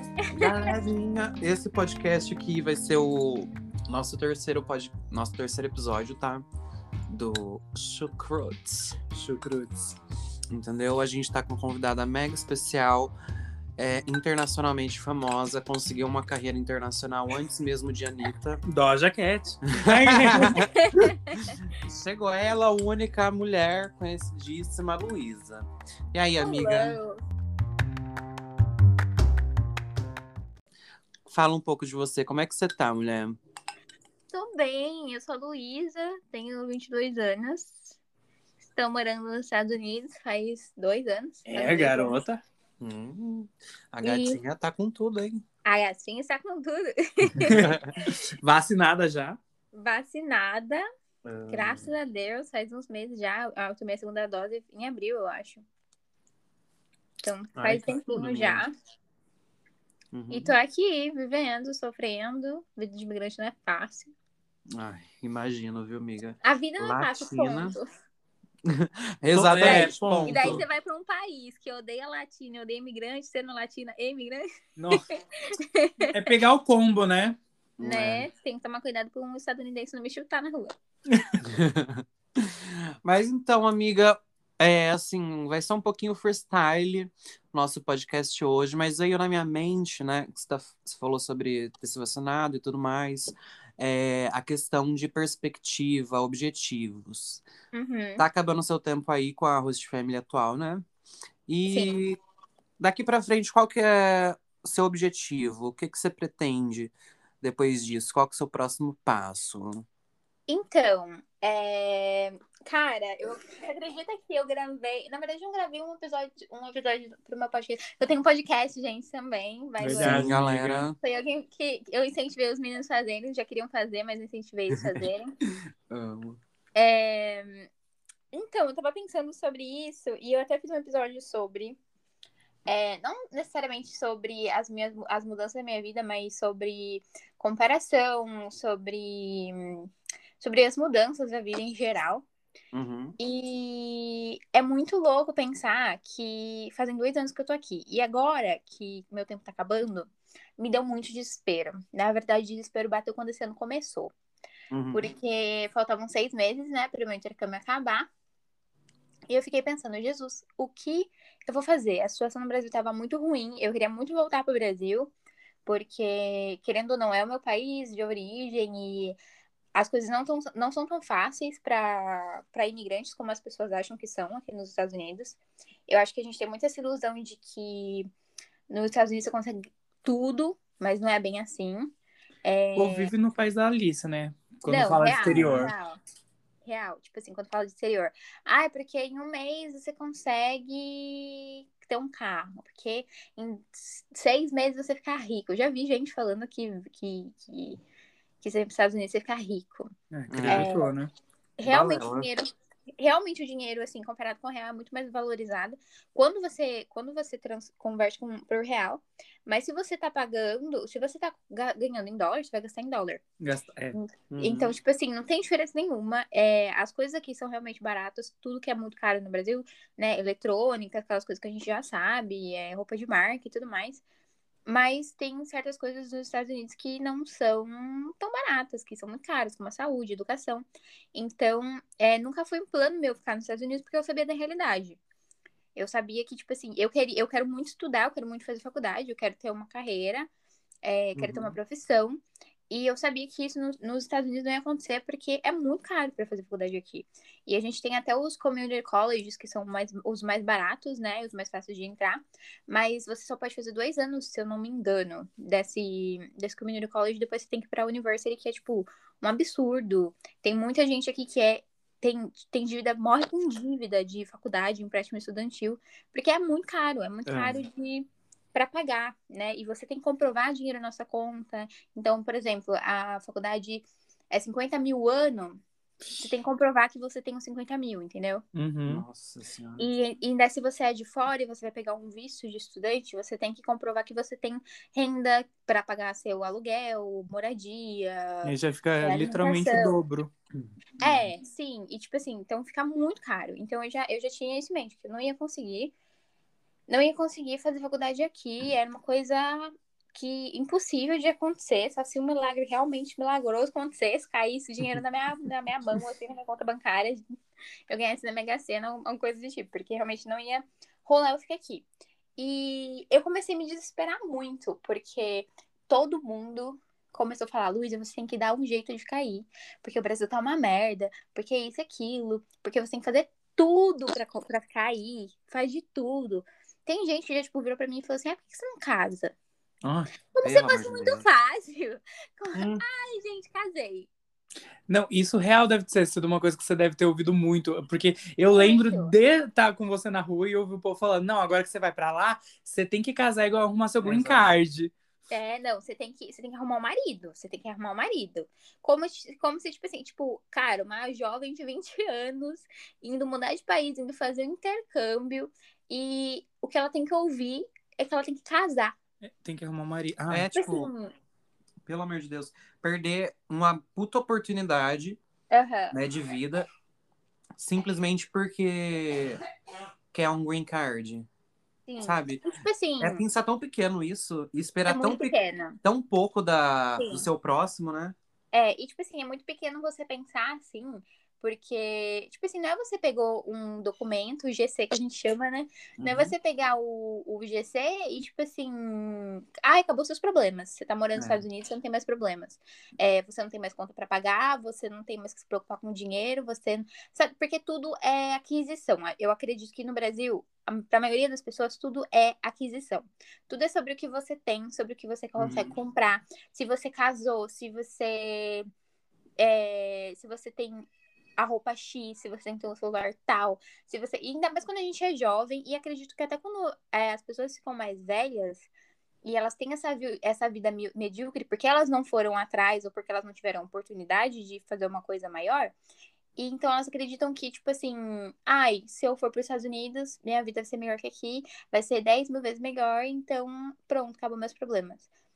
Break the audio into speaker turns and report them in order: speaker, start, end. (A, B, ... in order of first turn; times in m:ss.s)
0:00.2-0:00.6 A
0:00.3-0:06.4 B
0:07.1-0:09.0 B
0:09.1-0:10.0 C
0:10.5-0:13.1 B
0:13.8-0:18.6 B
0:18.6-0:20.7 C
0:19.7-0:20.7 B
0:20.5-0:21.6 A
0:21.4-0:27.0 B
0:26.4-0:27.2 A
0:31.3-0:33.4 B
0:34.3-0:38.0 A
0:38.7-0:42.2 A
0:41.5-0:42.4 C
0:42.8-0:45.4 B
0:44.0-0:44.4 A
0:45.6-0:47.7 A
0:47.4-0:48.0 B
0:47.4-0:47.8 C
0:48.4-0:49.4 C
0:49.7-0:50.8 A
0:51.2-0:51.9 B
0:51.5-0:55.6 A
0:57.2-0:58.7 A
0:57.6-0:58.6 B
1:00.1-1:00.5 B
1:00.3-1:04.1 A
1:04.7-1:07.8 B
1:06.4-1:07.8 A
1:08.6-1:10.6 B
1:09.3-1:10.6 C
1:09.6-1:16.3 A
1:14.8-1:15.0 C
1:16.1-1:17.4 C
1:17.8-1:18.2 B
1:17.8-1:20.7 A
1:21.1-1:21.4 C
1:21.4-1:37.4 B
1:37.7-1:38.2 A
1:38.2-1:40.8 B
1:41.5-1:42.2 B
1:41.7-1:41.9 A
1:42.8-1:49.8 B
1:50.5-2:00.3 A
1:59.8-2:00.8 C
1:59.9-2:01.0 B
2:01.0-2:05.3 A
2:05.9-2:06.4 B
2:06.7-2:07.7 A
2:08.3-2:11.8 A
2:12.7-2:22.2 A
2:22.7-2:23.2 B
2:23.2-2:34.1 A
2:34.7-2:35.0 B
2:34.9-2:38.1 A
2:39.3-2:45.1 A
2:45.6-2:49.2 A
2:49.7-2:58.1 A
2:58.7-3:01.9 A
3:02.4-3:03.1 A
3:02.8-3:05.7 C
3:04.6-3:06.0 A
3:05.3-3:05.7 B
3:06.6-3:17.8 A
3:18.4-3:19.9 A
3:20.1-3:21.1 C
3:20.3-3:20.7 B
3:20.4-3:20.9 A
3:21.6-3:33.2 A
3:21.6-3:22.3 B
3:33.4-3:34.0 C
3:33.9-3:44.0 A
3:34.3-3:34.7 B
3:44.7-3:55.0 A
3:55.7-4:00.3 A
4:00.8-4:35.6 A
4:01.2-4:01.6 B
4:27.3-4:27.6 B
4:36.2-4:38.4 A
4:38.5-4:39.0 C
4:38.9-4:39.9 B
4:39.8-4:50.0 A
4:48.4-4:50.3 C
4:51.0-4:55.9 A
4:56.9-5:07.2 A
5:07.9-5:29.3 A
5:29.8-5:30.1 C
5:30.3-5:34.1 A
5:30.4-5:31.2 B
5:32.5-5:32.8 B
5:34.9-5:44.9 C
5:38.4-5:39.1 A
5:44.0-5:44.5 B
5:45.3-5:59.0 A
5:59.2-6:00.5 C
6:00.3-6:00.9 B
6:00.5-6:01.1 A
6:01.8-6:05.2 B
6:05.5-6:06.0 A
6:05.9-6:06.7 B
6:07.6-6:09.4 B
6:10.1-6:11.3 B
6:11.9-6:13.2 A
6:12.0-6:18.2 B
6:14.9-6:15.8 A
6:17.0-6:17.2 A
6:18.5-6:48.7 A
6:26.0-6:26.3 B
6:31.2-6:31.4 B
6:45.4-6:45.7 B
6:49.4-6:50.9 A
6:51.4-6:58.7 A
6:59.2-7:05.7 A
7:06.4-7:15.1 A